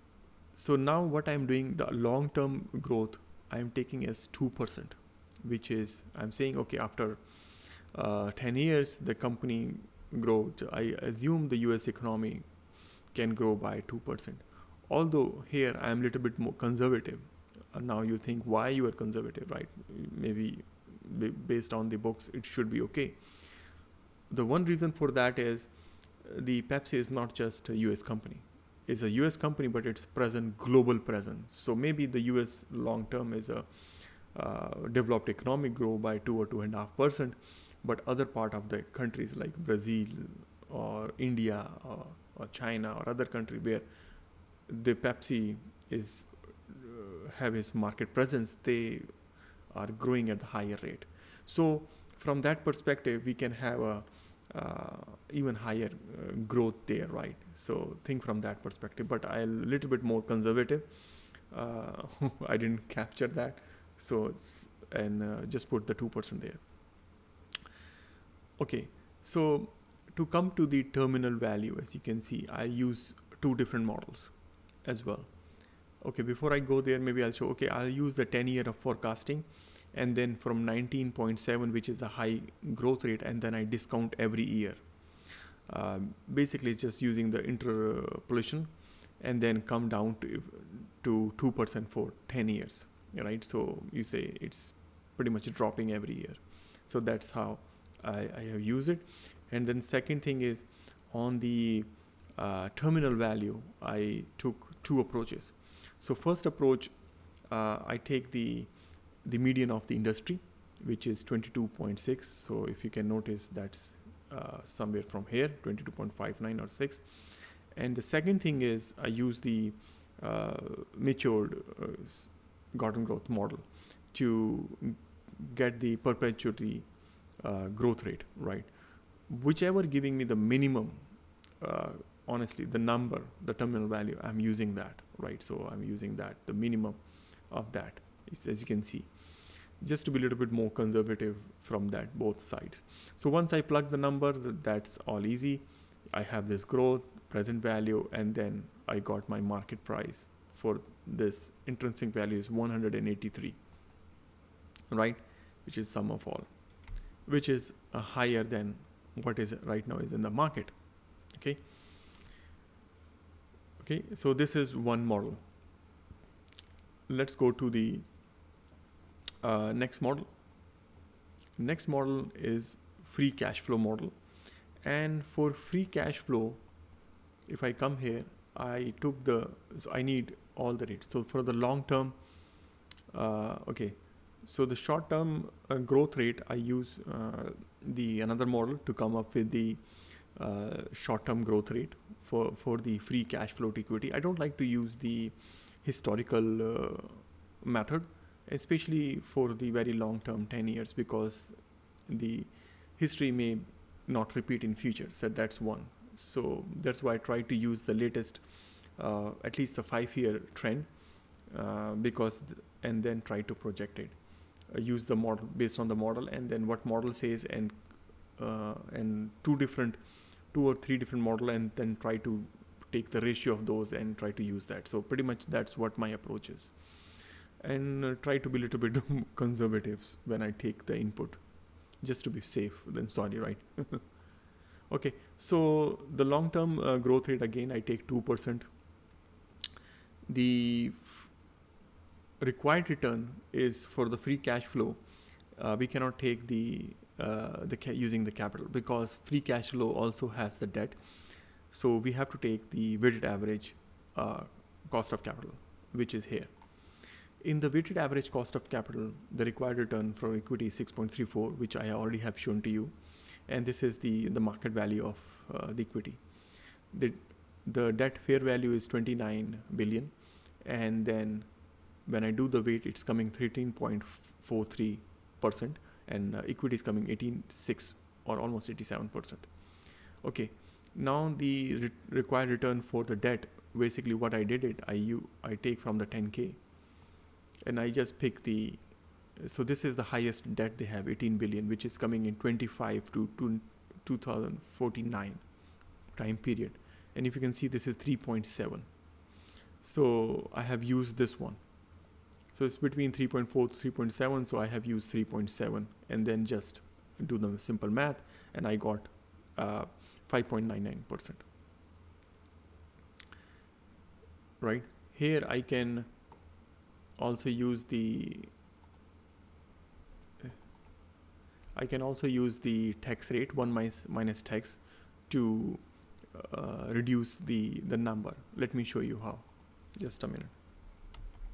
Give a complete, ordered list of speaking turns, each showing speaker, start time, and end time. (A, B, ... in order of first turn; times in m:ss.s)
0:00.5-0:12.5 A
0:13.1-0:23.2 A
0:24.3-0:25.7 A
0:26.2-0:43.9 A
0:44.7-1:00.9 A
1:01.5-1:06.6 A
1:08.6-1:15.3 A
1:16.0-1:24.8 A
1:25.7-1:48.7 A
1:49.2-2:06.9 A
2:07.4-2:08.7 A
2:09.2-2:11.1 A
2:11.6-2:19.1 A
2:19.8-2:33.6 A
2:34.9-2:36.5 A
2:37.2-2:40.7 A
2:41.3-2:41.6 A
2:43.8-2:45.4 A
2:47.1-2:48.1 A
2:49.4-2:50.3 A
2:51.6-2:54.2 A
2:54.8-2:56.6 A
2:57.5-3:02.1 A
3:03.1-3:28.4 A
3:29.0-3:30.9 A
3:31.5-3:34.2 A
3:34.7-3:40.0 A
3:40.5-3:46.7 A
3:47.6-3:51.4 A
3:51.9-3:54.2 A
3:54.9-3:58.7 A
4:00.3-4:01.3 A
4:02.4-4:05.0 A
4:05.5-4:11.0 A
4:11.7-4:16.5 A
4:17.4-4:22.9 A
4:23.5-4:26.2 A
4:26.9-4:31.5 A
4:32.0-4:39.5 A
4:40.2-4:46.6 A
4:47.6-4:55.4 A
4:56.1-4:58.9 A
4:59.8-5:01.6 A
5:02.5-5:11.4 A
5:14.6-5:16.1 A
5:17.2-5:18.5 A
5:21.7-5:30.5 A